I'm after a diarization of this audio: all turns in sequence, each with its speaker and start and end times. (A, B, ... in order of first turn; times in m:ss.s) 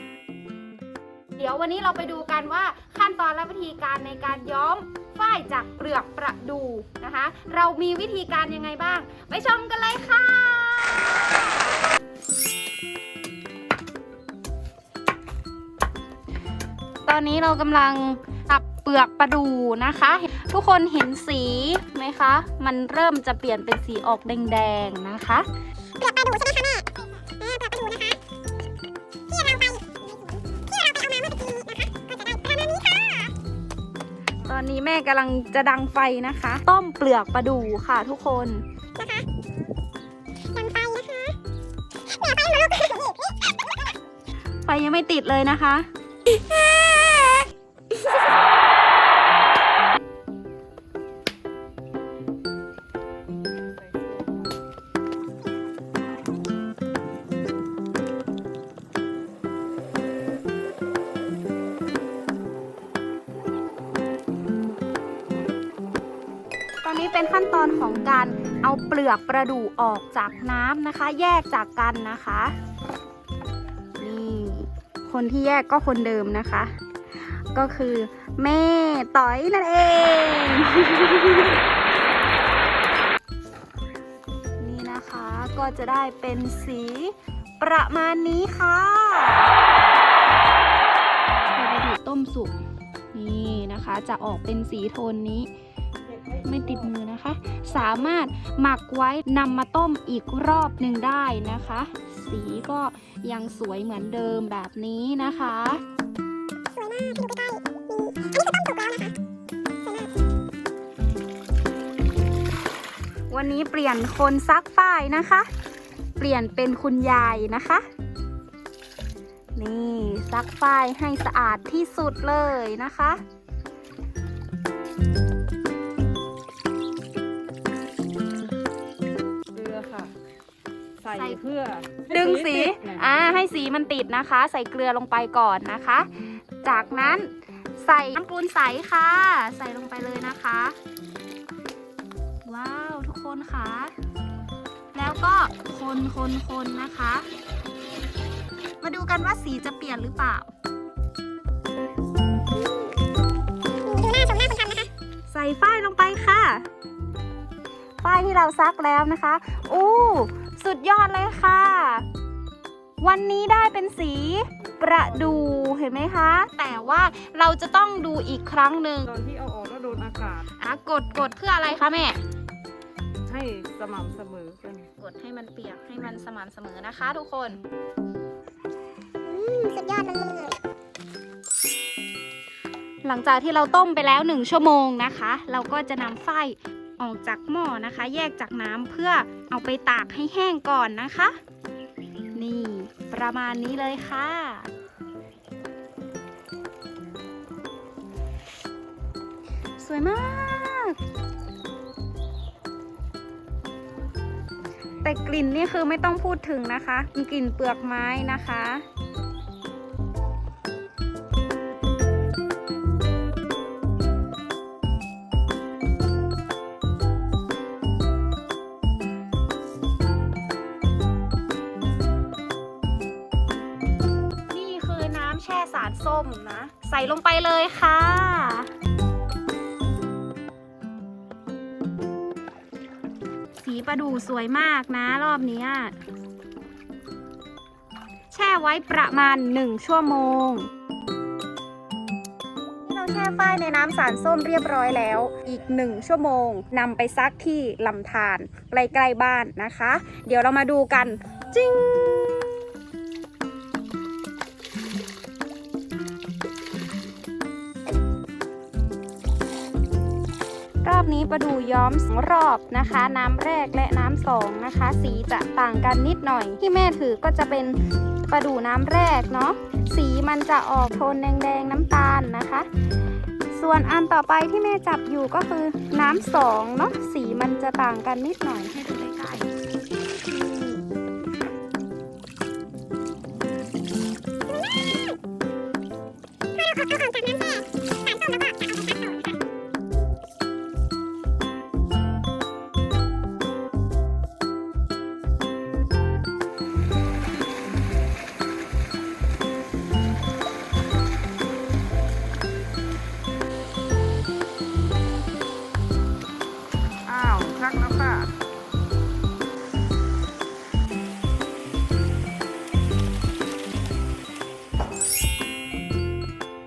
0:01.4-0:11.8 A
0:17.1-0:25.5 A
0:26.0-0:28.2 B
0:29.3-0:33.3 B
0:34.4-0:38.6 A
0:39.0-0:39.3 B
0:40.5-0:41.4 B
0:42.1-0:43.6 B
0:44.6-0:45.9 A
0:46.5-0:47.4 A
0:47.9-0:48.2 A
0:53.9-0:54.4 C
1:06.8-1:12.5 A
1:14.0-1:21.6 A
1:24.6-1:29.5 A
1:31.5-1:32.6 A
1:33.1-1:35.5 A
1:36.4-1:45.8 A
1:46.7-1:49.2 B
1:53.3-1:55.5 A
1:56.2-1:57.9 A
1:59.6-2:03.2 A
2:09.5-2:10.2 C
2:11.0-2:13.2 C
2:11.1-2:11.4 A
2:12.1-2:20.8 A
2:22.4-2:23.9 A
2:24.9-2:27.3 A
2:28.8-2:30.5 A
2:33.8-2:34.9 B
2:35.3-2:36.7 A
2:38.0-2:42.1 A
2:43.0-2:49.1 A
2:44.9-2:45.6 C
2:49.1-2:50.5 C
2:50.6-2:52.2 A
2:53.3-2:54.9 C
2:55.0-2:57.6 A
2:59.2-3:00.6 B
3:03.0-3:11.4 A
3:12.3-3:14.7 A
3:19.8-3:21.0 A
3:25.0-3:28.8 A
3:44.5-3:48.7 A
3:53.6-3:56.0 A
3:58.3-4:00.7 A
4:02.8-4:12.7 A
4:20.8-4:32.7 A
4:33.5-4:39.5 A
4:40.2-4:40.8 A
4:46.6-4:49.1 B
5:07.1-5:08.4 C